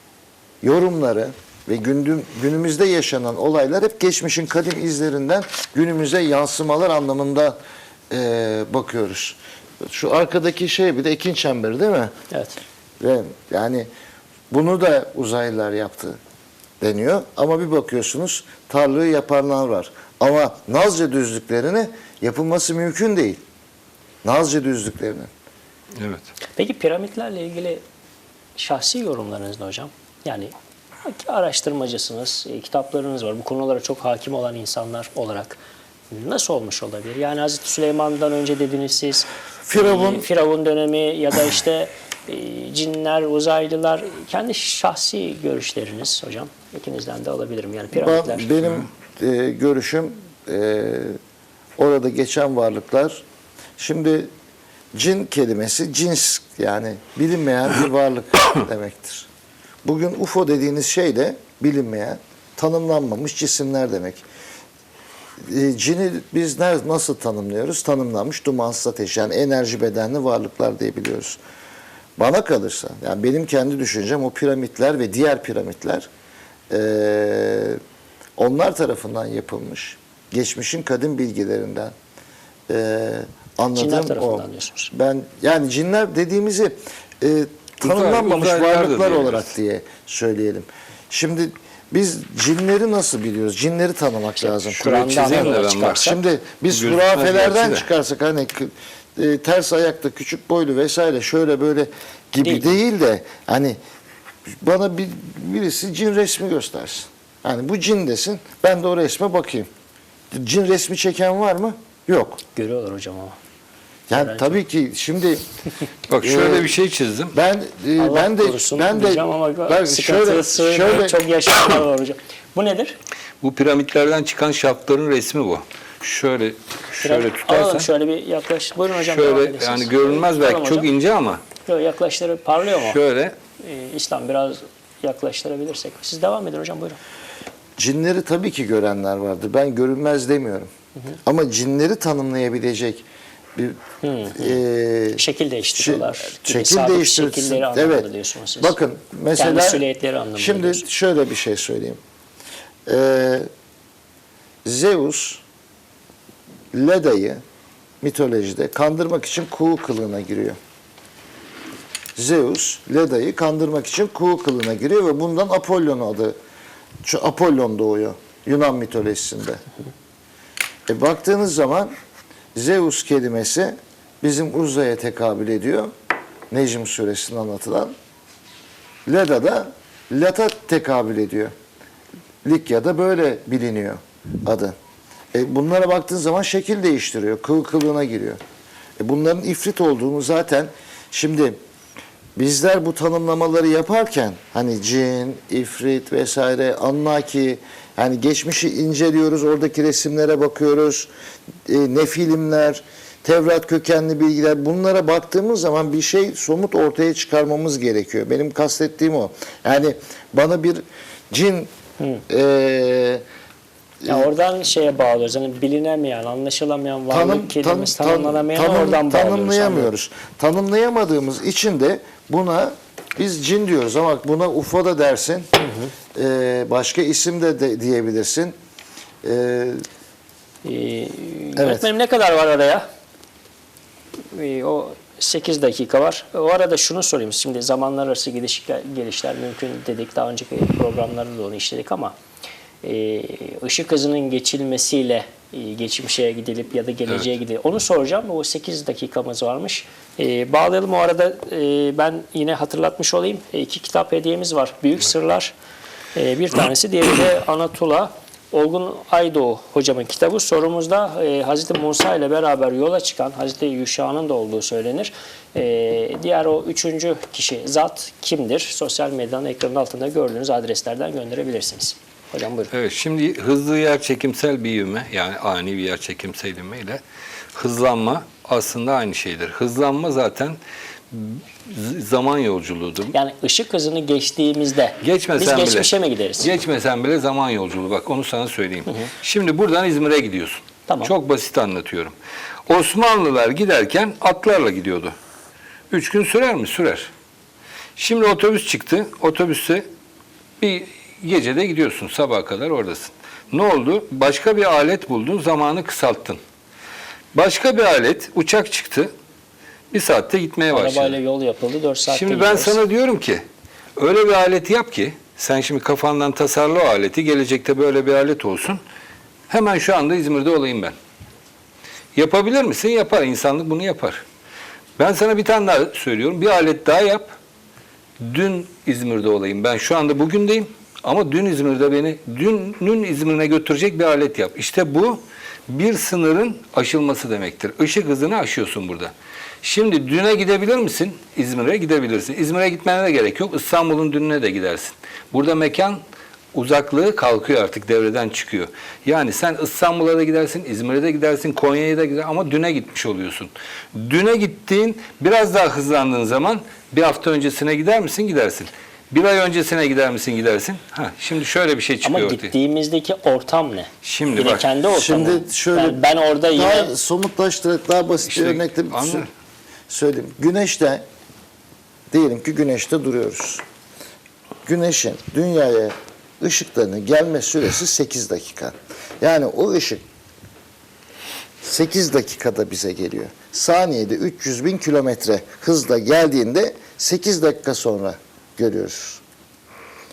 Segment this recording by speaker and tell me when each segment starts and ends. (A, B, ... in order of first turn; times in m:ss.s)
0:00.6-0:07.6 A
0:08.1-0:12.1 A
0:12.3-0:12.6 B
0:13.0-0:13.9 A
0:14.5-0:16.2 A
0:16.8-0:23.4 A
0:24.2-0:25.3 A
0:26.0-0:26.3 C
0:26.6-0:27.8 B
0:28.6-0:30.5 B
0:31.0-0:35.6 B
0:36.1-0:48.5 B
0:39.6-0:40.3 A
0:48.0-0:51.2 A
0:51.8-0:53.2 A
0:53.8-0:54.3 A
0:55.0-0:59.3 A
0:59.8-1:04.2 A
1:05.4-1:11.4 A
1:12.2-1:16.1 A
1:16.7-1:17.8 A
1:18.4-1:21.9 A
1:22.7-1:43.8 A
1:23.8-1:24.9 B
1:27.8-1:29.5 C
1:34.4-1:36.2 B
1:34.8-1:36.1 C
1:36.7-1:37.9 C
1:42.4-1:42.7 B
1:44.6-1:49.7 A
1:50.3-1:52.4 A
1:52.6-1:53.4 B
1:54.1-1:55.4 A
1:54.1-1:54.6 B
1:56.1-1:57.3 C
1:56.2-1:56.8 A
1:57.3-2:01.2 A
1:58.0-2:03.0 B
2:03.4-2:07.9 C
2:07.0-2:10.9 B
2:09.0-2:11.4 C
2:11.6-2:13.0 B
2:12.7-2:13.3 C
2:13.6-2:17.0 B
2:17.8-2:20.7 A
2:21.2-2:23.8 A
2:24.0-2:24.6 B
2:24.3-2:25.2 A
2:25.1-2:28.8 B
2:25.8-2:28.1 A
2:28.6-2:29.8 A
2:29.3-2:30.8 B
2:30.4-2:32.0 A
2:32.9-2:33.5 A
2:34.6-2:35.4 A
2:36.7-2:37.4 A
2:38.0-2:40.6 A
2:42.2-2:46.4 A
2:47.0-2:49.6 A
2:50.9-2:51.9 A
2:52.6-2:55.9 A
2:56.5-2:57.9 A
2:59.1-3:01.5 A
3:02.4-3:04.8 A
3:05.3-3:08.4 A
3:09.0-3:11.6 A
3:12.4-3:21.1 A
3:21.7-3:31.7 A
3:32.3-3:33.2 A
3:34.0-3:34.3 A
3:34.1-3:39.9 B
3:37.1-3:45.5 A
3:45.6-3:45.9 B
3:46.2-3:48.6 A
3:49.2-3:49.8 A
3:50.6-3:52.8 B
3:51.6-3:51.9 A
3:54.3-4:02.1 B
4:02.8-4:15.5 B
4:16.2-4:32.7 B
4:32.7-4:37.0 C
4:37.6-4:40.6 C
4:41.1-4:43.1 C
4:43.1-4:46.5 B
4:45.0-4:52.2 C
4:50.9-4:51.1 B
4:52.7-4:55.1 C
4:55.9-4:57.1 C
4:58.0-4:59.8 C
5:00.6-5:06.4 C
5:07.3-5:09.1 C
5:09.9-5:11.2 C
5:10.7-5:12.8 B
5:12.1-5:13.4 C
5:14.0-5:18.8 C
5:19.5-5:21.0 C
5:22.2-5:24.2 C
5:25.0-5:27.3 C
5:28.2-5:46.0 C
5:46.5-6:02.5 C
6:02.0-6:06.9 B
6:04.0-6:04.7 C
6:04.9-6:09.3 A
6:08.3-6:09.3 C
6:09.9-6:11.0 A
6:12.1-6:13.6 A
6:14.6-6:20.0 A
6:21.6-6:29.2 A